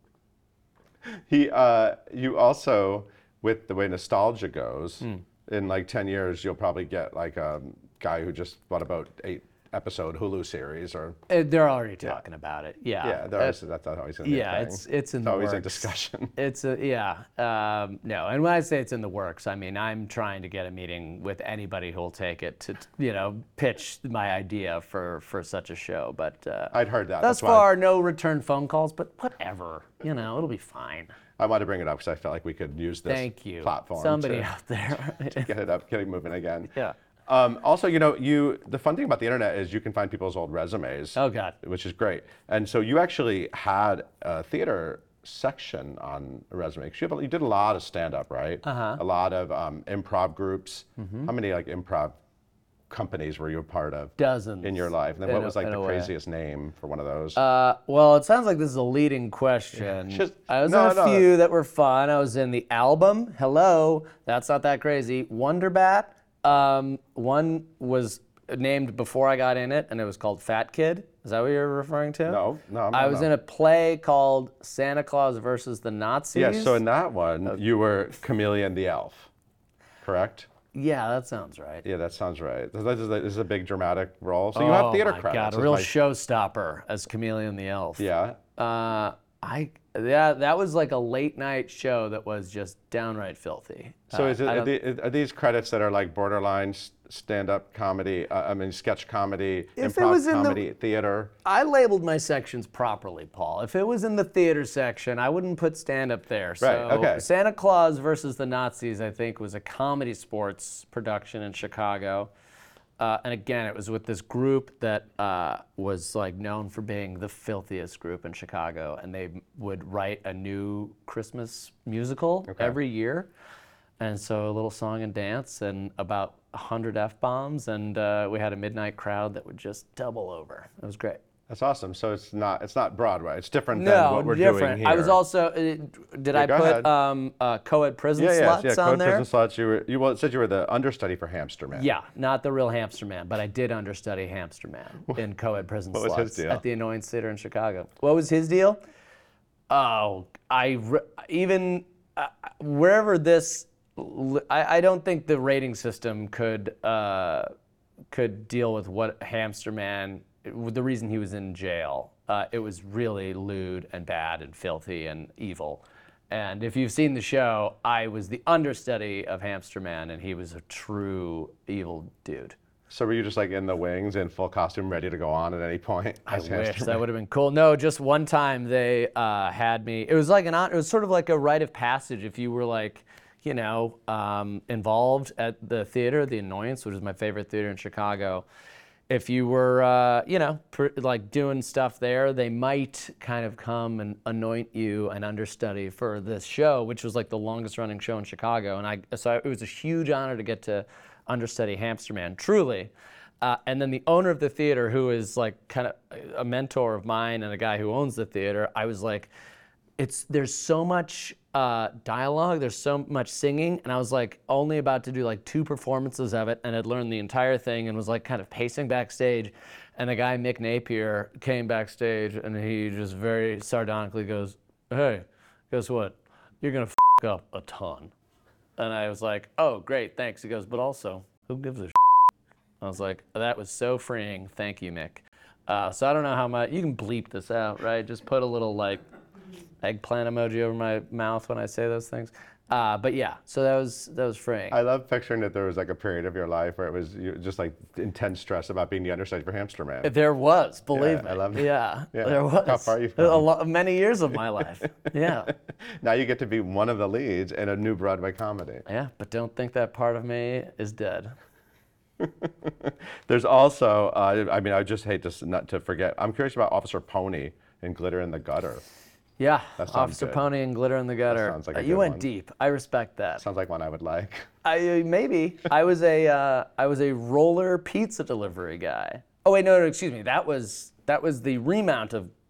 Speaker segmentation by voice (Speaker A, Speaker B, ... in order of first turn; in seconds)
Speaker A: 1.0-11.2, 13.0-16.3, 26.7-27.7, 31.4-34.5, 35.2-36.7, 37.3-52.1, 52.9-57.4, 60.0-61.3, 72.2-73.3, 76.3-79.3, 80.0-80.5, 81.8-85.9, 88.0-88.4, 94.1-101.3, 106.6-107.2, 122.5-122.8, 131.5-135.2, 136.3-136.9, 138.2-141.9, 145.9-146.6, 172.9-177.0, 244.7-250.1, 250.9-253.5, 255.5-258.8, 262.2-268.8, 269.8-270.4, 271.3-272.3, 273.4-274.5
Speaker B: 11.3-13.6, 14.2-31.1, 33.1-35.5, 41.1-41.5, 48.6-49.0, 51.0-51.3, 54.2-56.1, 57.3-76.8, 80.7-81.8, 84.5-94.7, 99.8-100.6, 101.4-112.3, 113.0-123.3, 124.0-131.2, 133.7-139.2, 141.7-148.8, 149.7-157.5, 158.1-172.6, 176.3-188.4, 189.1-209.3, 210.0-228.1, 228.8-232.2, 232.8-239.0, 239.8-244.8, 250.0-255.5, 258.9-261.3, 269.4-273.4, 274.6-282.3